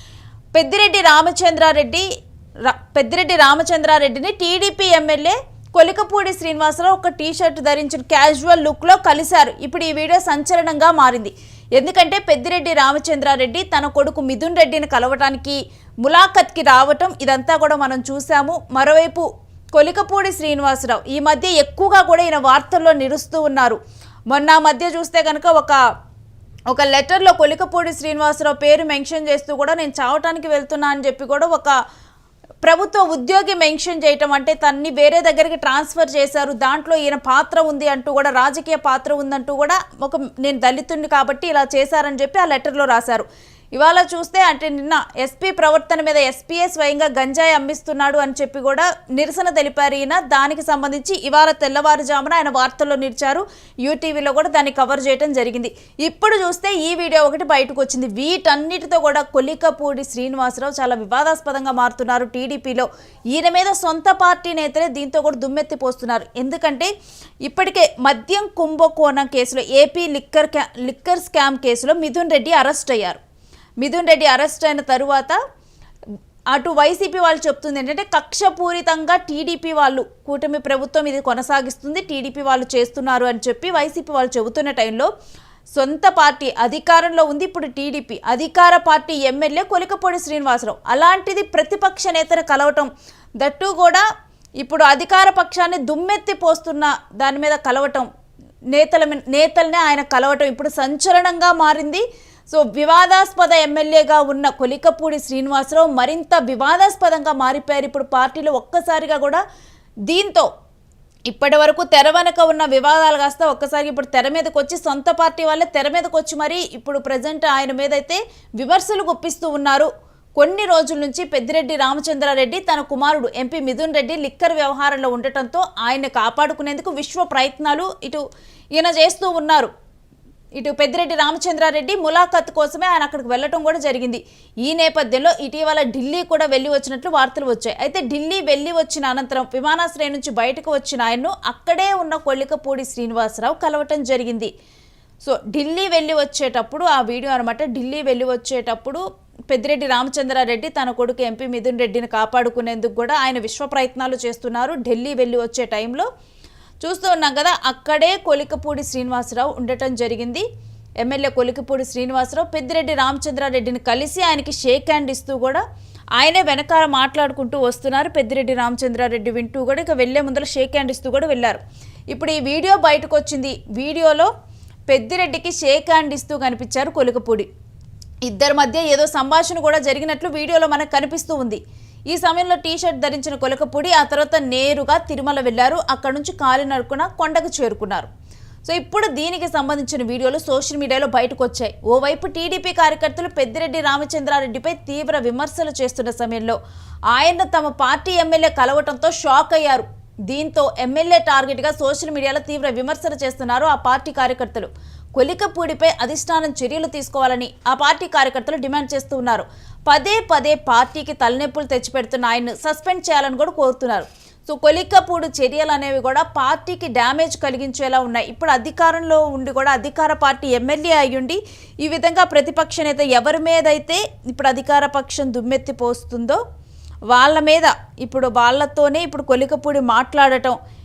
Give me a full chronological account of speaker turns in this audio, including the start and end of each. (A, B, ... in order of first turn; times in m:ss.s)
0:00.6-0:02.0 A
0:02.6-0:23.8 A
0:24.3-0:25.8 A
0:26.7-0:31.8 A
0:32.6-1:06.9 A
1:07.4-1:13.2 A
1:13.8-1:15.4 A
1:16.5-1:25.1 A
1:25.8-1:32.9 A
1:33.4-1:34.0 A
1:34.6-1:38.1 A
1:38.7-1:49.4 A
1:50.1-1:50.5 A
1:51.3-2:09.7 A
2:10.5-2:24.5 A
2:25.2-2:36.1 A
2:36.8-2:40.5 A
2:41.0-2:45.6 A
2:46.2-2:54.3 A
2:54.9-2:57.5 A
2:58.2-3:08.1 A
3:08.6-3:16.6 A
3:17.1-3:46.4 A
3:47.1-3:50.6 A